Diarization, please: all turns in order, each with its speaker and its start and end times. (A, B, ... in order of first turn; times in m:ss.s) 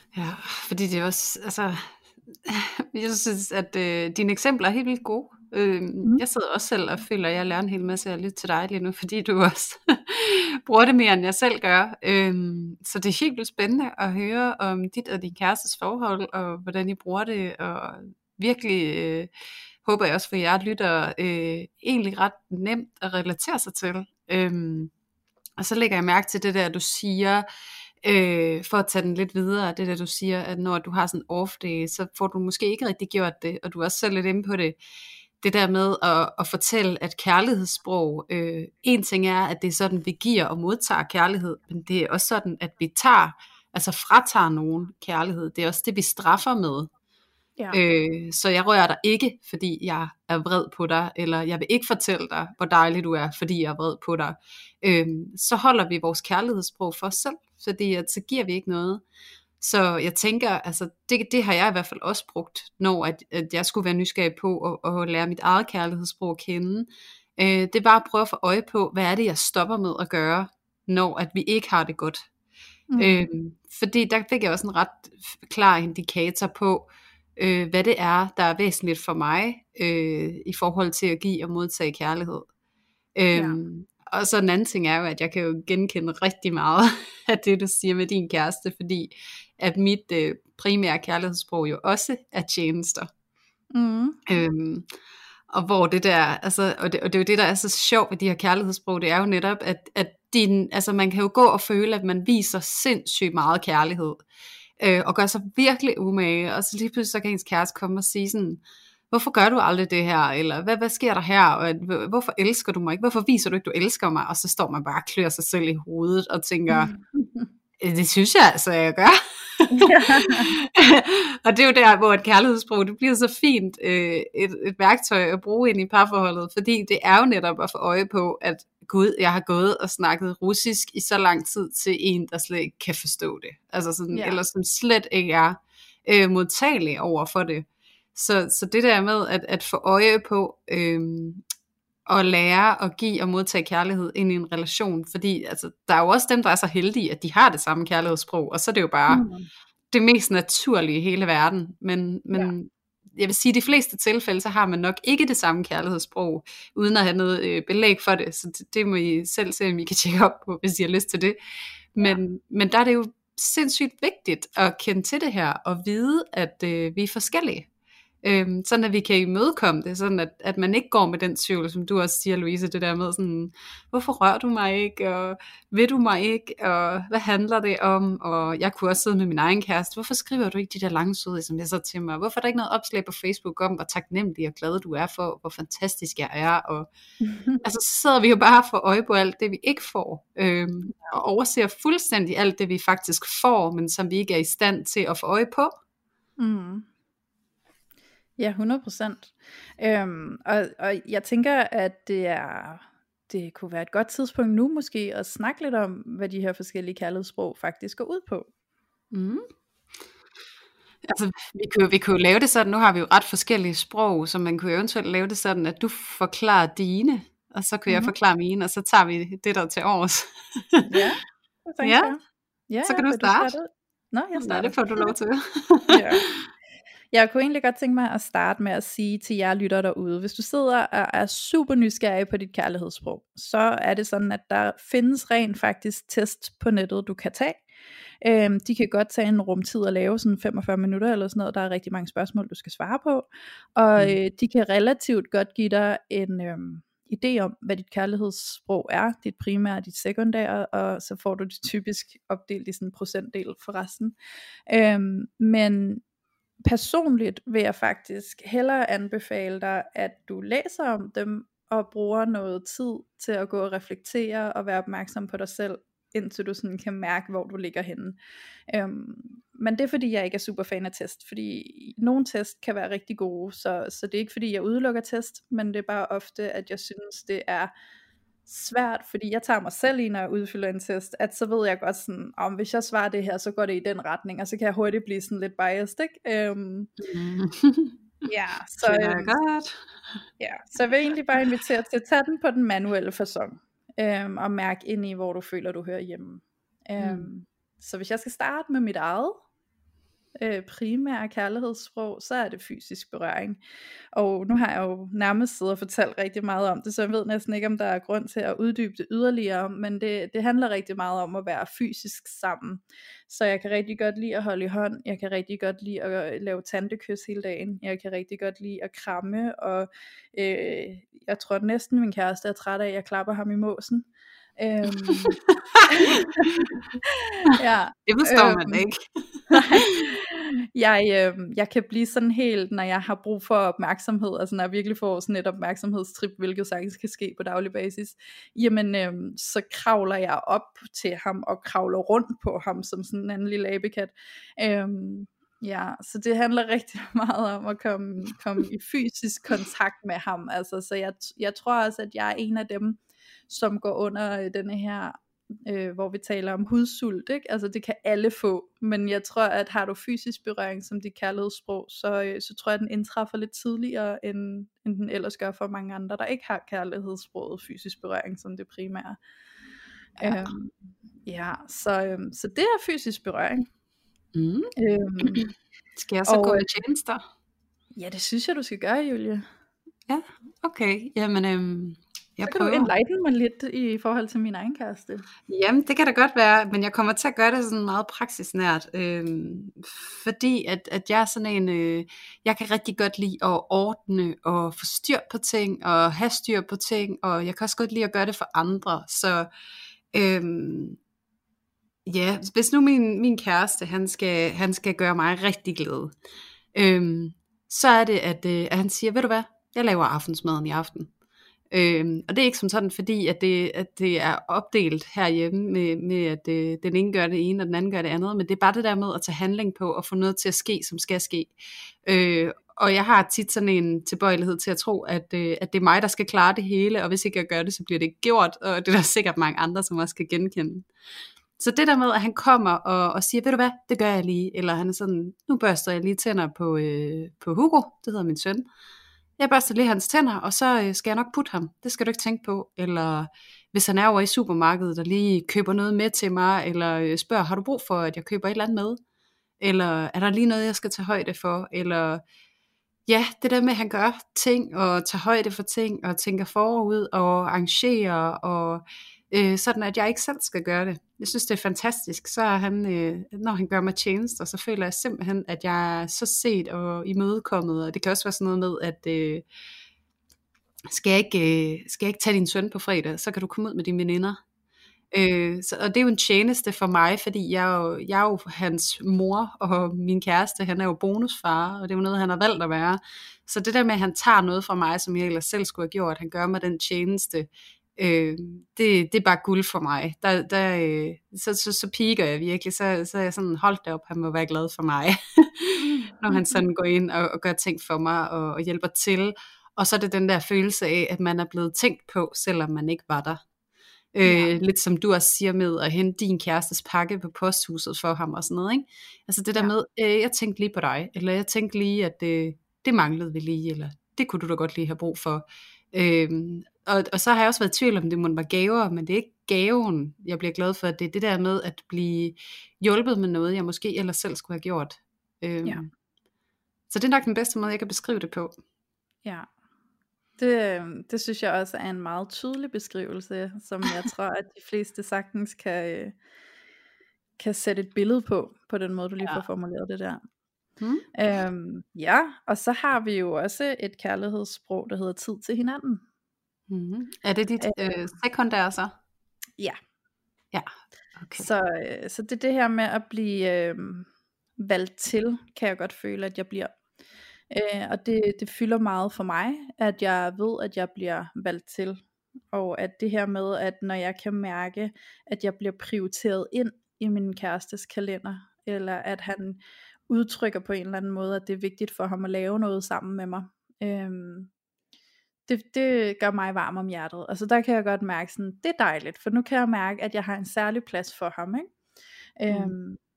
0:00.1-0:19.3 A
0:19.8-0:24.9 A
0:25.6-0:27.5 A
0:28.0-0:34.8 A
0:35.4-0:46.9 A
0:47.7-0:59.0 A
0:59.6-1:12.2 A
1:12.9-1:13.3 B
1:13.0-1:22.5 A
1:23.2-1:33.1 A
1:23.3-1:23.6 B
1:33.7-1:34.2 B
1:34.3-1:34.9 A
1:35.5-1:44.2 A
1:44.8-1:56.9 A
1:56.7-1:57.5 B
1:57.8-2:21.4 A
1:59.7-2:00.6 B
2:14.1-2:14.4 B
2:22.1-2:29.2 A
2:29.1-2:29.5 B
2:29.9-2:41.4 A
2:41.9-2:47.7 A
2:48.2-3:06.9 A
3:07.2-3:07.6 B
3:07.6-3:15.7 A
3:16.4-3:16.9 B
3:18.4-3:28.5 B
3:29.1-3:29.5 A
3:31.0-3:40.9 A
3:37.9-3:38.1 B
3:40.9-3:45.1 B
3:41.8-3:42.1 A
3:42.8-3:43.5 A
3:44.4-3:46.4 A
3:45.9-3:46.2 B
3:47.1-3:57.6 B
3:58.2-4:14.1 B
4:14.7-4:16.0 B
4:16.6-4:28.2 B
4:28.7-4:37.7 B
4:38.5-4:46.9 B
4:47.0-4:48.0 A
4:48.2-4:49.3 B
4:48.8-4:50.2 A
4:50.4-4:59.4 B
4:57.0-4:57.3 A
5:00.4-5:03.6 B
5:04.2-5:26.8 B
5:25.1-5:25.9 A
5:26.6-5:26.8 A
5:27.4-5:28.8 B
5:28.1-5:29.0 A
5:29.5-6:09.2 B
5:29.5-5:29.9 A
6:10.2-6:10.7 B
6:10.2-6:10.5 A
6:11.3-6:13.6 B
6:14.3-6:17.2 A
6:14.8-6:15.5 B
6:16.3-6:16.7 B
6:18.0-6:19.4 B
6:20.1-6:22.9 A
6:22.5-6:25.3 B
6:25.5-6:39.5 A
6:40.1-6:41.0 A
6:42.1-6:46.1 A
6:46.7-6:51.1 A
6:51.7-7:01.6 A
7:02.1-7:10.9 A
7:11.6-7:18.7 A
7:19.4-7:29.0 A
7:29.6-7:32.2 A
7:33.1-7:49.4 A
7:50.9-7:54.4 A
7:55.1-8:23.4 A
8:15.8-8:16.6 B
8:24.1-8:45.9 A
8:24.2-8:24.5 B
8:46.9-8:48.5 A
8:50.4-8:56.2 B
8:57.4-9:00.2 B
9:00.8-9:01.0 A
9:01.2-9:06.0 B
9:06.7-9:08.9 A
9:07.6-9:07.9 B
9:10.5-9:11.5 A
9:11.4-9:14.1 B
9:14.6-9:16.7 B
9:17.5-9:34.5 B
9:35.5-9:41.7 B
9:42.4-9:43.0 B
9:42.5-9:42.8 A